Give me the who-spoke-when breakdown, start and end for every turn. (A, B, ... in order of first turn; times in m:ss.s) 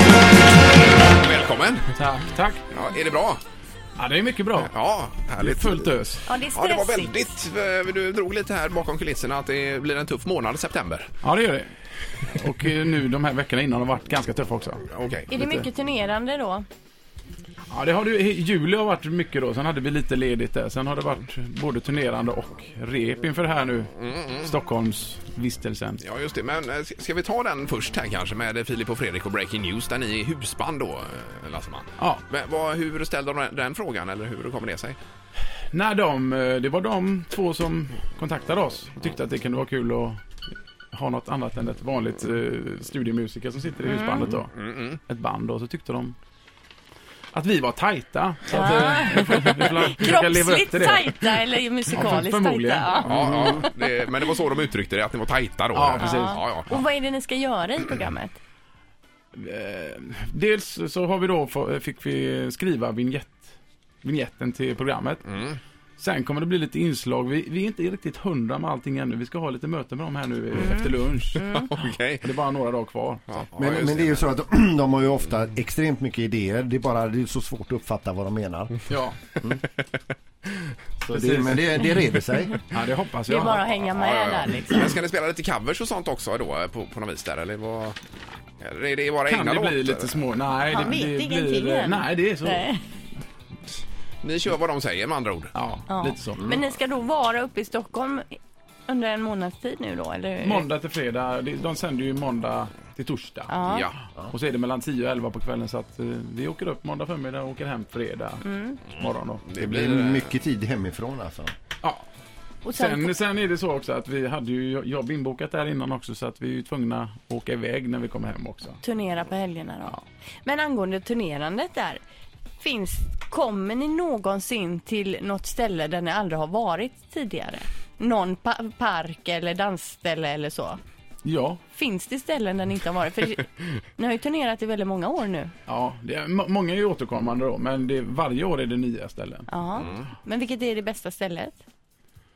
0:01.1-0:01.9 A
0:02.0-0:02.6 B
0:02.7-0:03.4 A
0:04.0-0:04.7 B
0:04.6-0:05.9 A
0:05.4-0:06.3 B
0:06.3-0:07.4 C
0:06.5-0:11.1 A
0:11.2-0:15.7 B
0:14.9-0:15.3 A
0:15.3-0:16.7 C
0:17.7-0:26.0 B
0:24.0-0:24.4 A
0:26.0-0:35.0 A
0:32.0-0:32.2 B
0:35.7-0:40.2 B
0:40.9-0:46.2 B
0:43.8-0:44.3 C
0:44.3-0:45.0 A
0:47.3-0:53.6 B
0:48.5-0:53.7 C
0:53.0-0:56.8 A
0:55.7-0:56.8 B
0:56.0-0:58.4 C
0:59.3-1:05.4 B
1:05.3-1:05.6 A
1:06.0-1:13.5 B
1:10.6-1:11.7 C
1:11.4-1:12.2 A
1:13.3-1:14.2 A
1:13.6-1:18.8 D
1:18.9-1:19.2 B
1:21.0-1:22.6 D
1:21.1-1:21.9 B
1:22.7-1:23.7 B
1:23.3-1:25.0 C
1:23.9-1:28.0 A
1:28.6-1:30.2 A
1:29.3-1:32.9 B
1:30.7-1:32.9 C
1:34.2-1:35.5 A
1:35.5-1:36.6 B
1:35.9-1:40.7 C
1:40.4-1:49.4 B
1:43.5-1:43.9 C
1:43.7-1:43.9 A
1:48.4-1:48.8 C
1:49.5-1:50.2 A
1:49.6-1:51.5 D
1:52.6-1:53.1 C
1:52.8-1:58.8 B
1:58.8-2:02.0 C
2:02.6-2:10.8 C
2:11.2-2:11.6 B
2:11.7-2:15.5 C
2:15.7-2:19.5 B
2:19.5-2:21.6 C
2:19.8-2:20.1 A